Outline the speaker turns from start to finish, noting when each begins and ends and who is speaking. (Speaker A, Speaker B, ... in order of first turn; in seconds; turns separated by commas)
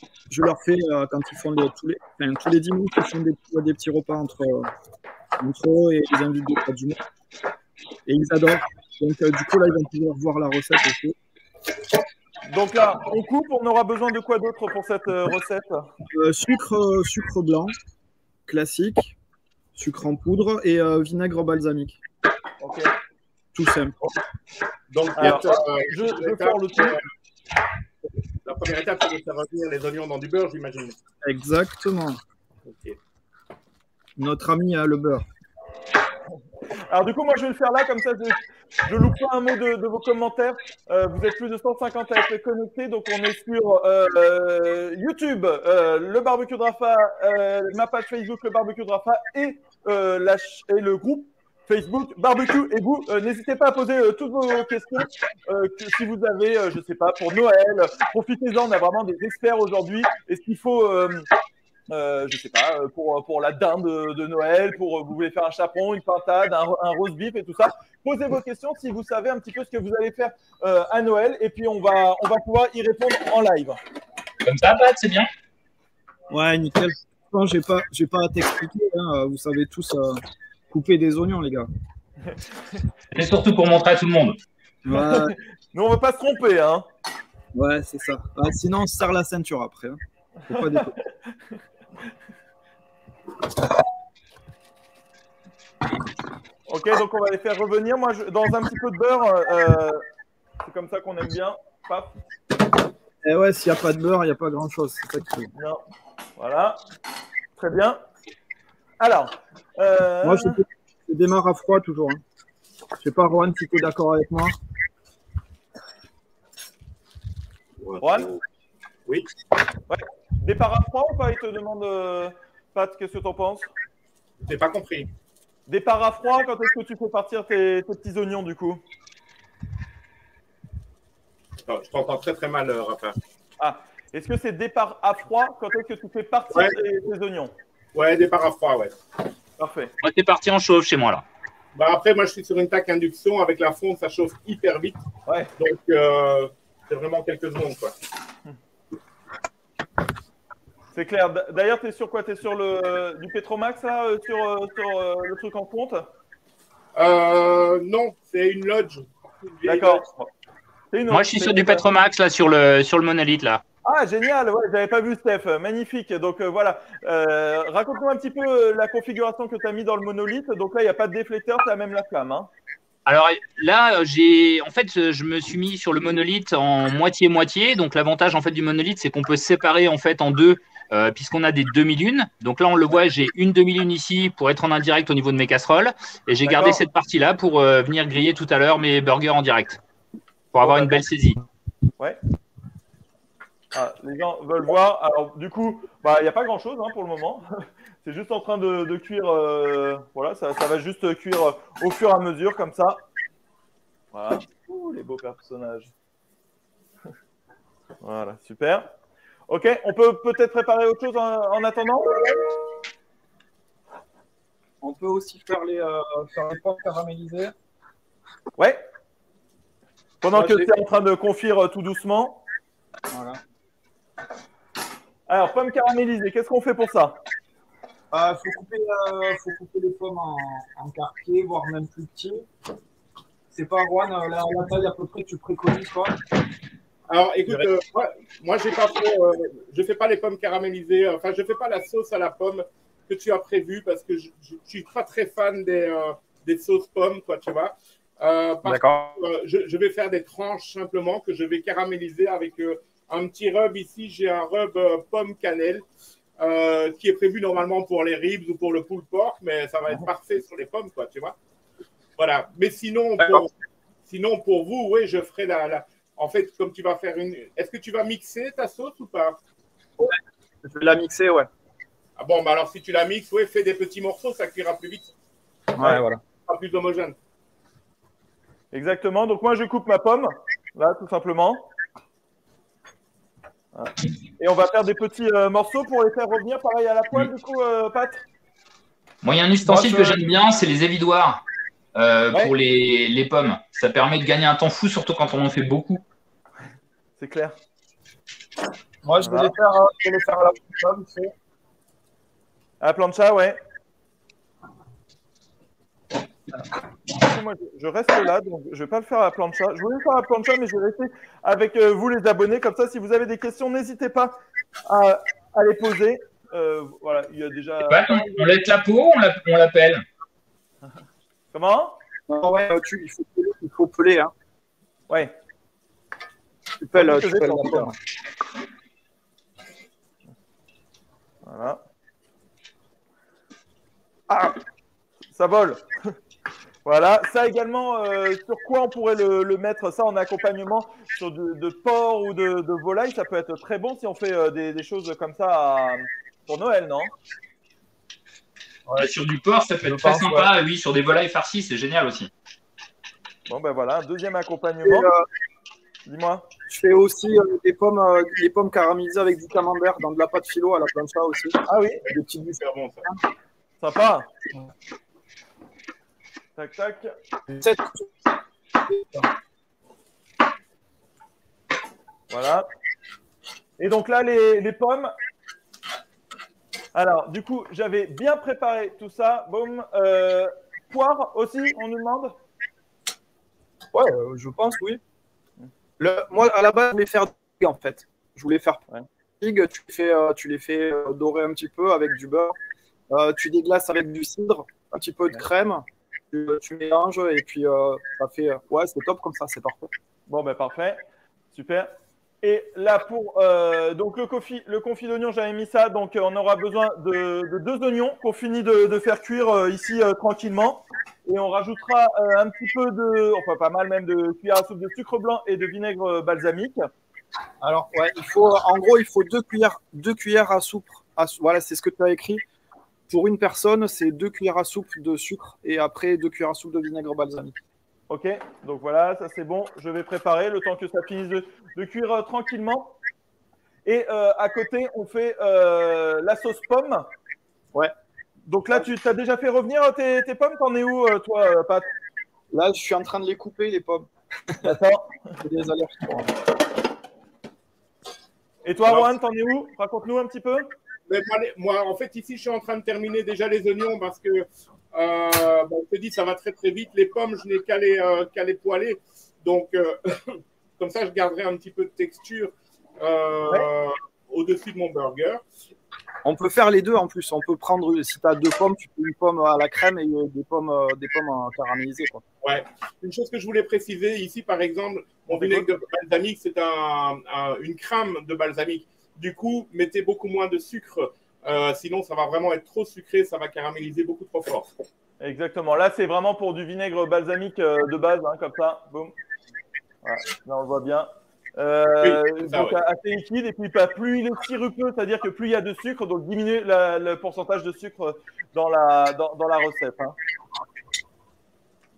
Speaker A: 0.3-4.7, Speaker A: 5.4-7.0, Speaker A: 8.1-11.2, Speaker B: 12.5-15.9, Speaker A: 16.1-17.7, Speaker A: 18.5-19.1, Speaker A: 19.7-22.0, Speaker B: 22.6-22.9, Speaker A: 23.5-23.9, Speaker C: 24.9-27.0, Speaker B: 25.2-27.0, Speaker C: 28.4-31.0, Speaker A: 31.2-32.2, Speaker C: 32.6-33.0, Speaker A: 34.2-35.2, Speaker B: 36.7-61.3, Speaker B: 61.9-73.8, Speaker D: 74.4-75.3, Speaker A: 76.3-81.7, Speaker D: 83.1-84.4, Speaker A: 84.8-85.3, Speaker B: 84.9-86.9, Speaker A: 87.5-91.0, Speaker B: 90.5-91.3, Speaker B: 96.7-100.0, Speaker B: 100.6-102.2, Speaker A: 103.2-105.5, Speaker B: 105.5-105.8, Speaker B: 106.4-106.8, Speaker B: 107.5-108.0, Speaker B: 109.0-110.6, Speaker A: 110.2-112.2, Speaker A: 113.0-114.5, Speaker C: 117.8-118.4, Speaker B: 118.0-118.3, Speaker B: 119.9-123.7, Speaker C: 124.4-125.1, Speaker B: 125.7-128.8, Speaker C: 131.7-133.2, Speaker B: 133.6-137.5, Speaker C: 137.9-138.9, Speaker B: 139.6-139.9, Speaker D: 140.0-141.2, Speaker C: 141.7-145.0, Speaker B: 145.3-145.5, Speaker C: 145.6-147.9, Speaker B: 150.9-156.1, Speaker C: 156.9-160.0, Speaker B: 159.6-160.3, Speaker B: 160.9-161.8, Speaker D: 161.1-163.6, Speaker B: 163.8-172.5, Speaker D: 173.1-189.8, Speaker B: 186.4-186.8, Speaker D: 190.5-191.4, Speaker B: 190.6-191.0, Speaker B: 193.7-203.0, Speaker B: 204.1-205.9, Speaker B: 208.0-208.9, Speaker B: 209.5-212.4, Speaker A: 214.8-217.5, Speaker B: 220.2-222.4, Speaker A: 220.3-220.7, Speaker A: 223.1-223.4, Speaker B: 225.3-227.2, Speaker A: 228.1-232.4, Speaker A: 233.5-236.2, Speaker C: 237.1-255.8, Speaker A: 248.6-249.2, Speaker C: 256.4-261.4, Speaker C: 262.2-263.5, Speaker A: 263.2-263.4, Speaker C: 264.1-269.4, Speaker A: 270.0-271.5, Speaker C: 272.2-275.1, Speaker A: 275.7-276.2, Speaker C: 275.8-277.1, Speaker B: 278.7-281.7, Speaker B: 283.7-288.2, Speaker D: 289.2-291.4, Speaker A: 289.6-290.2, Speaker D: 291.9-296.0, Speaker B: 297.2-297.6, Speaker A: 299.0-301.3, Speaker B: 299.2-299.5, Speaker B: 302.8-303.6, Speaker B: 307.1-318.6, Speaker D: 317.9-320.0, Speaker B: 321.5-321.9, Speaker A: 322.3-324.3, Speaker A: 326.8-327.9, Speaker B: 326.9-327.9, Speaker B: 331.4-331.8, Speaker B: 334.3-334.6, Speaker B: 335.3-336.1, Speaker B: 336.8-347.1, Speaker D: 349.0-352.3, Speaker A: 349.9-350.5, Speaker B: 353.5-355.1, Speaker A: 354.8-355.2, Speaker B: 356.1-356.4, Speaker A: 356.7-363.2, Speaker B: 361.7-362.0, Speaker C: 362.5-363.1, Speaker B: 363.8-364.3, Speaker B: 366.6-367.1, Speaker A: 367.5-368.1, Speaker A: 368.9-369.3, Speaker B: 372.3-372.6, Speaker B: 373.8-375.1, Speaker B: 376.9-382.4, Speaker A: 383.9-385.0, Speaker A: 386.0-388.8, Speaker A: 389.4-392.6, Speaker A: 393.1-399.9, Speaker B: 400.3-401.0, Speaker B: 401.5-401.9, Speaker B: 402.4-416.8, Speaker A: 417.6-422.4, Speaker A: 423.1-427.6, Speaker B: 428.1-432.9, Speaker B: 433.8-437.1, Speaker B: 438.5-441.9, Speaker A: 442.5-444.8, Speaker B: 444.6-445.4, Speaker A: 445.4-446.4, Speaker B: 448.6-450.7, Speaker C: 451.1-465.4, Speaker A: 466.2-472.2, Speaker C: 472.4-484.7, Speaker B: 475.3-475.6, Speaker B: 485.2-489.1, Speaker B: 490.0-500.1, Speaker C: 492.0-492.8